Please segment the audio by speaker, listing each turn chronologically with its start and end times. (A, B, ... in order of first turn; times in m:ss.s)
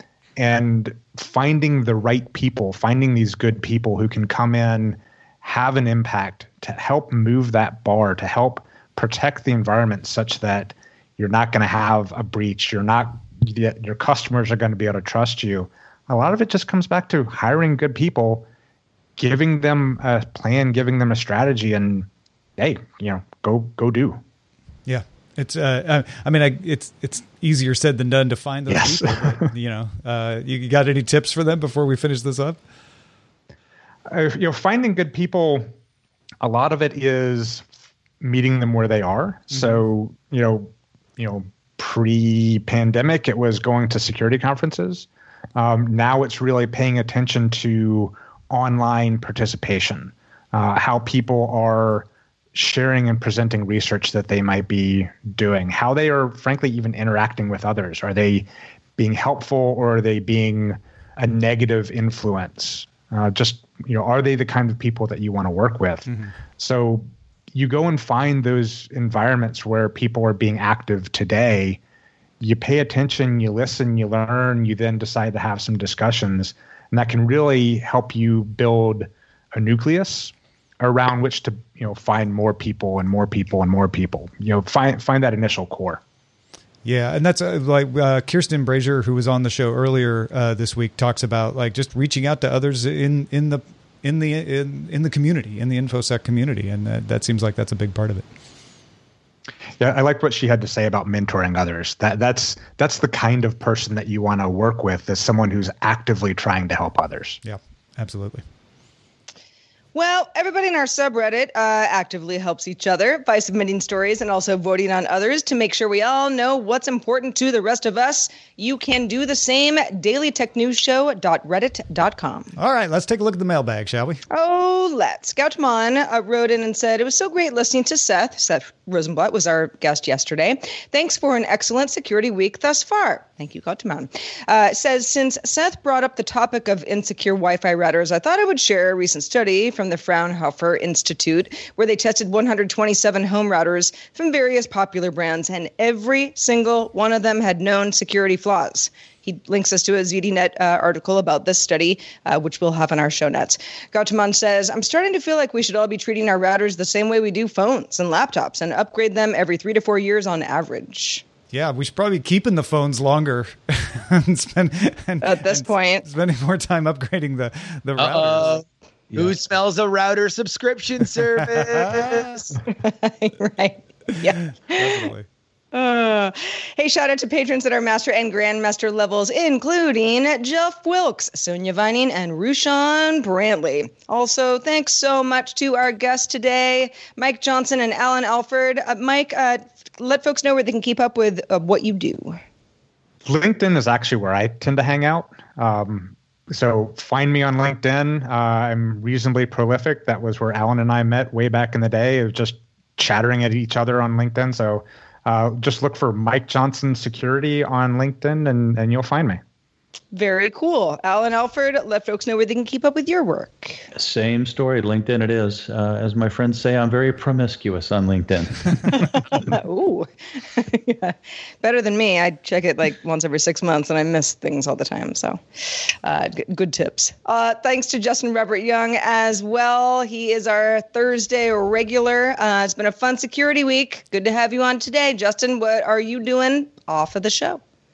0:00.4-0:18.5 A
0:19.2-0:24.2 A
0:24.8-0:32.6 B
0:28.7-0:29.4 A
0:34.1-0:35.7 A
0:36.4-0:37.6 A
0:38.2-1:11.8 A
1:12.4-1:26.0 A
1:26.8-1:38.2 B
1:39.8-1:47.4 A
1:47.4-1:48.4 B
1:49.9-2:02.5 C
2:02.6-2:04.2 B
2:04.3-2:41.2 C
2:41.5-2:48.6 B
2:45.2-2:46.0 C
2:48.0-2:52.6 D
2:51.6-2:52.2 B
2:52.7-2:55.1 C
2:54.7-2:55.2 B
2:55.7-3:12.4 C
3:13.2-3:29.4 A
3:30.1-3:33.8 C
3:33.9-3:38.9 E
3:39.3-3:45.4 C
3:46.0-3:57.6 C